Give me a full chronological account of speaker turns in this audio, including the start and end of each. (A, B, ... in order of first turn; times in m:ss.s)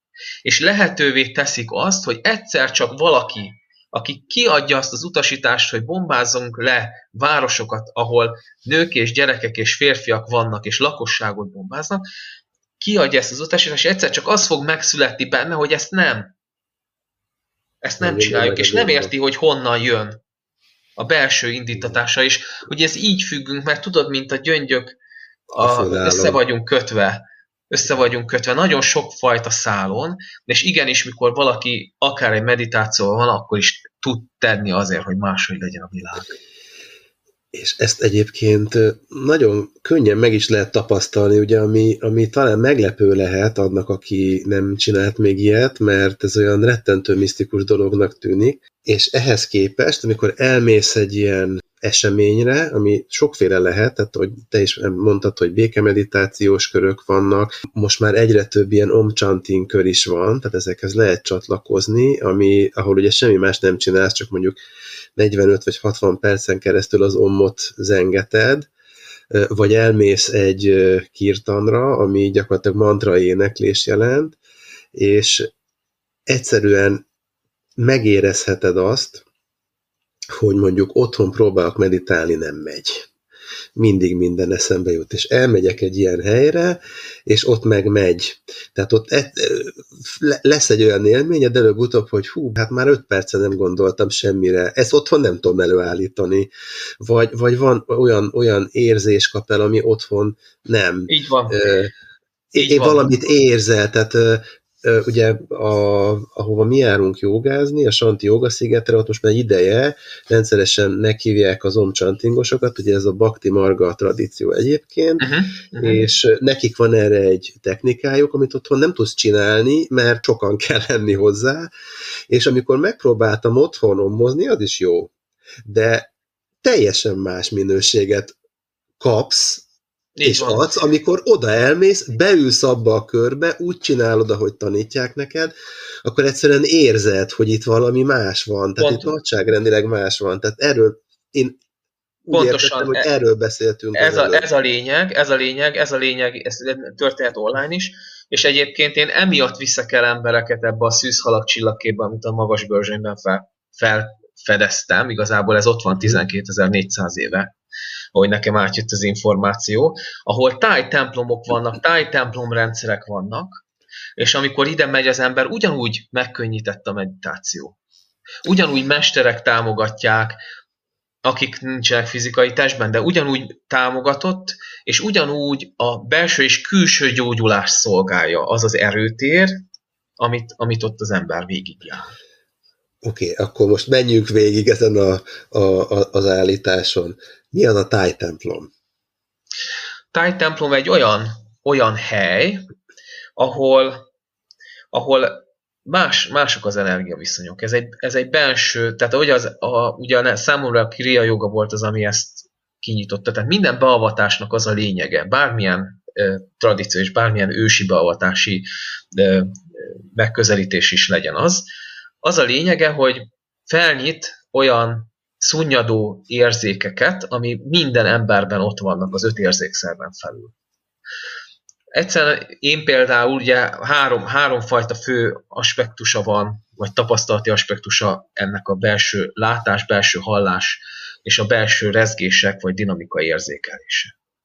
0:00.4-0:12.0 A
0:12.8-0:16.3 A
0:17.8-0:20.2 A
0:18.0-0:19.1 B
0:21.0-0:25.0 A
0:25.5-0:26.4 B
0:25.6-0:36.4 A
0:37.5-1:04.6 B
1:05.2-1:08.7 B
1:09.3-1:14.4 B
1:15.0-1:15.5 B
1:16.3-1:17.0 B
1:17.8-1:19.2 B
1:20.4-1:23.1 B
1:23.8-1:36.5 B
1:37.0-1:41.9 B
1:41.1-1:41.7 A
1:42.5-1:55.3 B
1:42.6-1:43.1 A
1:55.2-1:56.0 A
1:55.8-2:01.7 B
2:02.3-2:05.1 B
2:05.6-2:06.1 B
2:06.6-2:08.3 B
2:09.0-2:09.6 B
2:10.2-2:10.7 A
2:10.2-2:15.5 B
2:16.0-2:21.6 B
2:18.8-2:19.2 A
2:22.3-2:24.5 B
2:22.3-2:23.1 A
2:24.0-2:37.5 A
2:38.1-2:43.6 A
2:44.2-2:47.8 A
2:48.4-2:50.4 A
2:51.2-2:59.5 A
3:00.2-3:02.1 A
3:03.0-3:08.7 B
3:10.1-3:12.6 A
3:13.4-3:14.0 A
3:14.9-3:31.7 A
3:32.2-3:40.5 A
3:42.0-3:54.1 A